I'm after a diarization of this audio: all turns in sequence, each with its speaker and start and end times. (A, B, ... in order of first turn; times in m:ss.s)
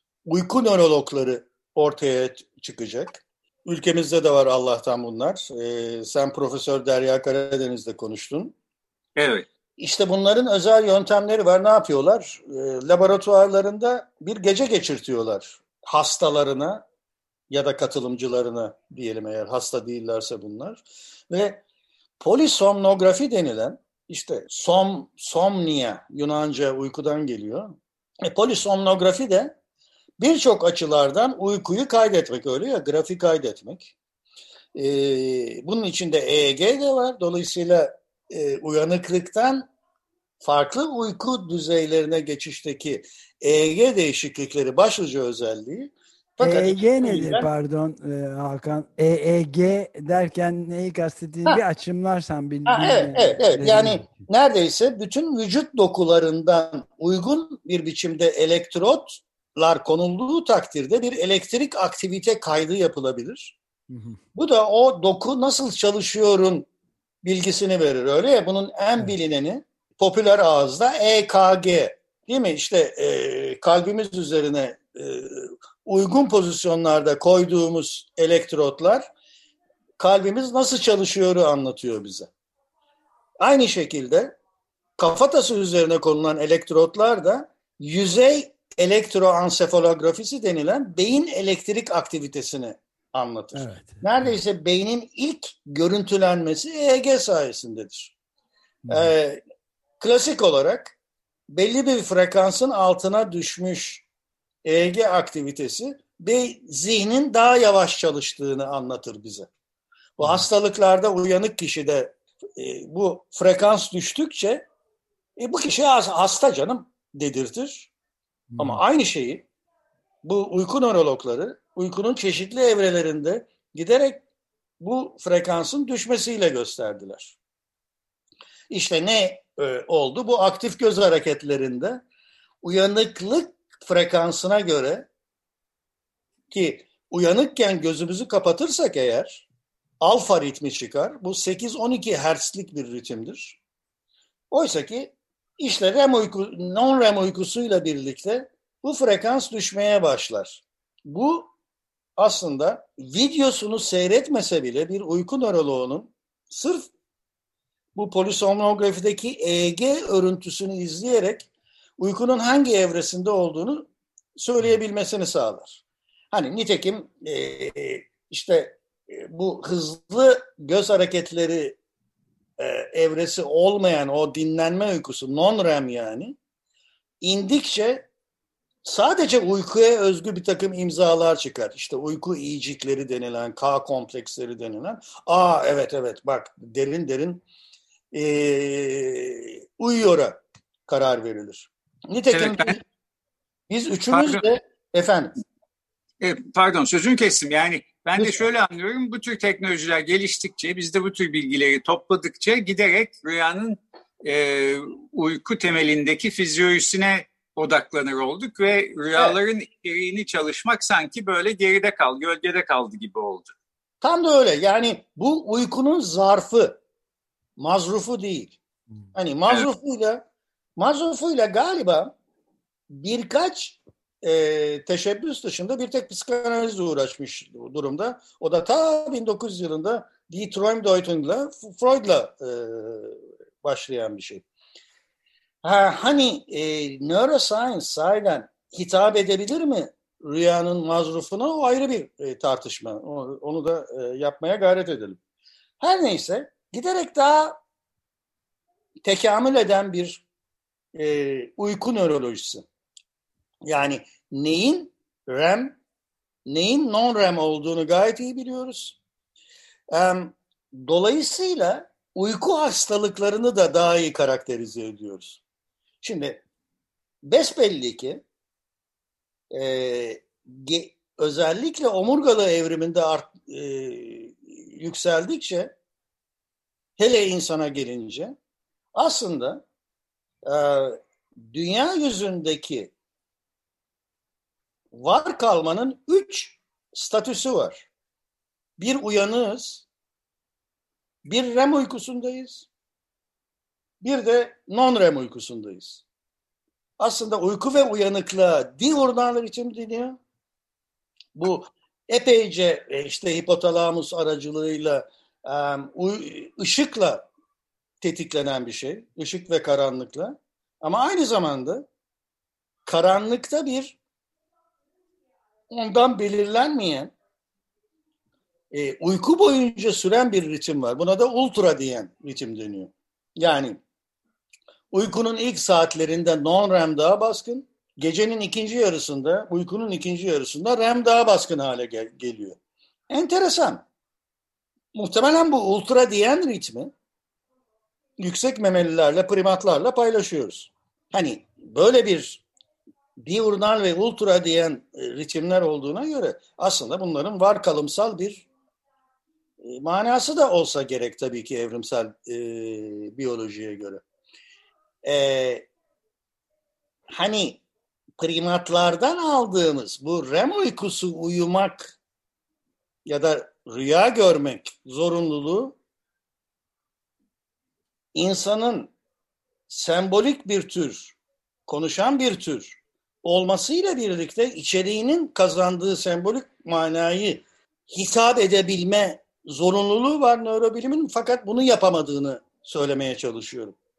0:00.3-0:08.6 A
0:09.2-0:09.5 B
0:09.8-0:16.8 A
0:17.5-0:21.6 A
0:22.2-0:27.7 A
0:28.3-0:29.6 A
0:30.2-0:33.9 A
0:34.8-0:39.7 A
0:40.4-0:47.5 A
0:46.4-0:54.2 C
0:52.7-1:03.6 A
1:03.9-1:04.2 C
1:04.4-1:06.7 A
1:07.2-1:19.1 A
1:20.0-1:22.3 A
1:23.4-1:24.4 A
1:25.0-1:38.1 A
1:33.5-1:34.4 C
1:38.9-1:39.1 C
1:38.9-1:39.4 A
1:40.0-1:41.0 A
1:41.5-1:44.0 A
1:44.6-1:49.5 A
1:50.2-1:54.7 A
1:55.4-1:57.9 A
1:58.5-1:58.8 C
1:58.6-1:59.5 A
2:00.2-2:04.2 A
2:04.8-2:07.4 A
2:08.7-2:12.0 A
2:12.6-2:15.1 A
2:16.5-2:19.5 A
2:20.0-2:23.6 A
2:24.5-2:31.5 A
2:32.2-2:36.9 A
2:38.0-2:45.8 A
2:46.3-2:51.8 A
2:52.6-2:56.4 A
2:57.2-2:58.1 A
2:58.8-3:07.4 A
3:08.1-3:12.8 A
3:12.3-3:12.8 B
3:13.7-3:15.3 A
3:14.1-3:14.4 B
3:16.2-3:33.5 B
3:18.2-3:18.4 A
3:34.0-3:36.8 A
3:37.6-3:38.6 A
3:39.2-3:40.2 A
3:40.8-3:42.2 A
3:42.9-3:54.4 A
3:55.6-4:05.2 A
4:05.8-4:07.6 A
4:09.0-4:10.2 A
4:10.9-4:12.6 A
4:13.7-4:15.8 A
4:16.5-4:19.0 A
4:19.9-4:25.4 A
4:26.0-4:26.4 A
4:27.2-4:28.2 A
4:29.5-4:35.8 A
4:37.0-4:38.4 A
4:39.0-4:39.6 A
4:40.5-4:42.9 A
4:44.9-4:47.9 A
4:48.8-4:49.9 A
4:51.2-4:52.7 A
4:54.0-4:56.0 A
4:57.0-5:00.2 A
5:01.4-5:07.3 A
5:08.0-5:11.9 A
5:12.9-5:14.0 A
5:15.7-5:17.1 A
5:18.7-5:23.8 A
5:24.9-5:32.6 A
5:33.1-5:33.8 A
5:34.9-5:36.9 A
5:38.2-5:42.4 A
5:43.2-5:48.5 A
5:49.6-5:54.0 A
5:55.0-5:55.7 A
5:57.1-5:57.6 A
5:58.2-6:02.0 A
6:03.1-6:05.8 A
6:08.1-6:08.9 A
6:09.7-6:11.2 A
6:11.7-6:23.8 A